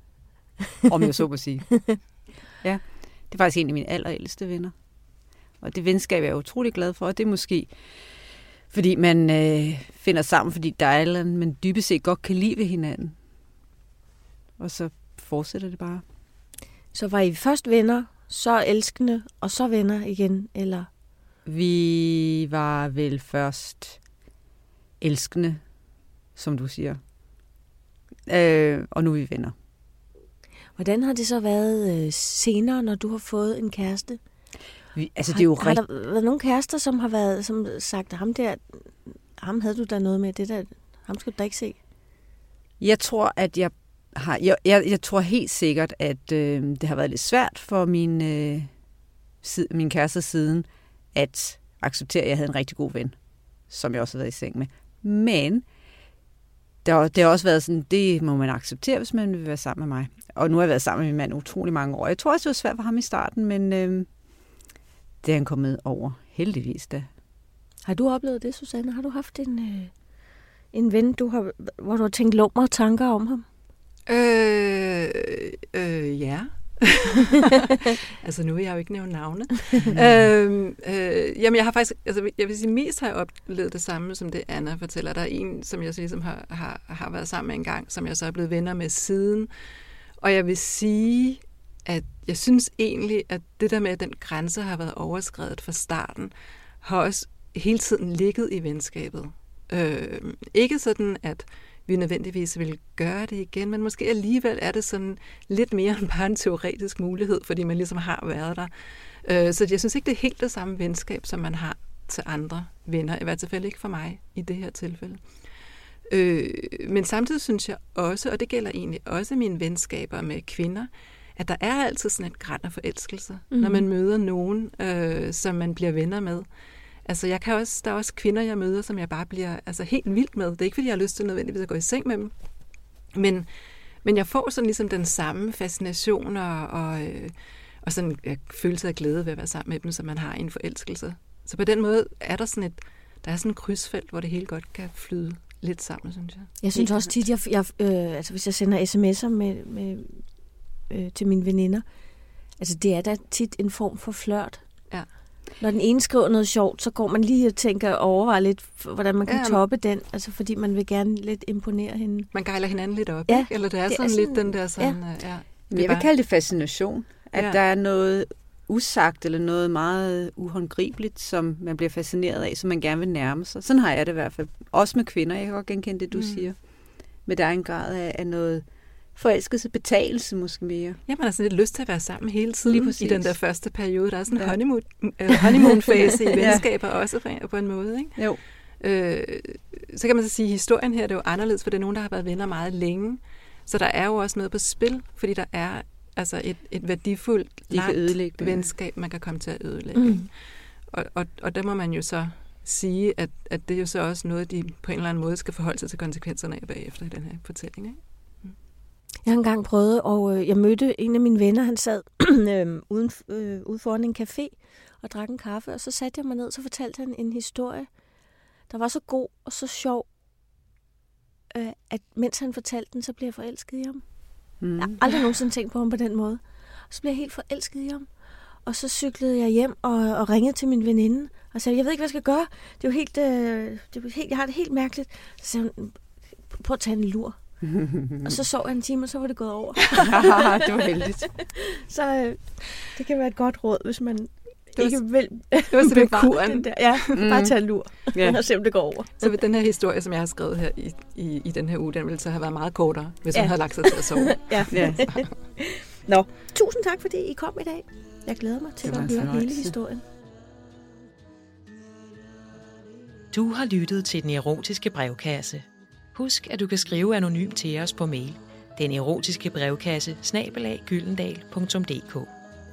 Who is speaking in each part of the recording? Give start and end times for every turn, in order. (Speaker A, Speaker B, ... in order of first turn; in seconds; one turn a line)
Speaker A: 0.9-2.1
Speaker A: 2.6-4.8
Speaker A: 5.6-8.2
Speaker A: 8.7-13.2
Speaker A: 14.6-16.0
Speaker B: 16.9-20.9
Speaker A: 21.5-24.0
Speaker A: 25.0-25.6
Speaker A: 26.4-27.0
Speaker A: 28.3-29.5
Speaker B: 30.8-34.2
Speaker A: 34.9-35.8
Speaker B: 35.3-41.8
Speaker A: 42.8-48.7
Speaker A: 49.4-55.6
Speaker A: 56.8-64.1
Speaker A: 65.2-67.1
Speaker B: 67.8-69.9
Speaker B: 70.7-73.5
Speaker C: 74.1-89.5
Speaker C: 90.2-115.2
Speaker C: 116.1-126.5
Speaker B: 123.5-123.8
Speaker C: 127.0-132.3
Speaker C: 133.1-133.5
Speaker C: 134.0-146.6
Speaker B: 146.6-150.2
Speaker B: 150.9-151.8
Speaker B: 152.6-154.6
Speaker B: 155.6-162.3
Speaker C: 159.3-159.6
Speaker C: 162.3-166.1
Speaker B: 163.3-165.0
Speaker A: 165.7-176.7
Speaker C: 176.1-176.5
Speaker A: 177.2-181.0
Speaker C: 181.1-208.5
Speaker A: 182.7-183.4
Speaker A: 184.3-186.7
Speaker A: 197.7-198.7
Speaker B: 200.0-200.3
Speaker B: 209.2-217.9
Speaker B: 218.7-220.1
Speaker B: 221.5-224.0
Speaker A: 224.6-225.0
Speaker B: 224.8-228.1
Speaker B: 228.7-237.4
Speaker A: 237.6-238.4
Speaker B: 238.2-240.6
Speaker A: 240.0-241.3
Speaker B: 241.4-249.3
Speaker C: 245.7-247.2
Speaker A: 247.2-248.4
Speaker C: 249.2-255.3
Speaker B: 253.3-260.0
Speaker A: 254.7-255.2
Speaker A: 258.8-259.8
Speaker D: 263.3-272.3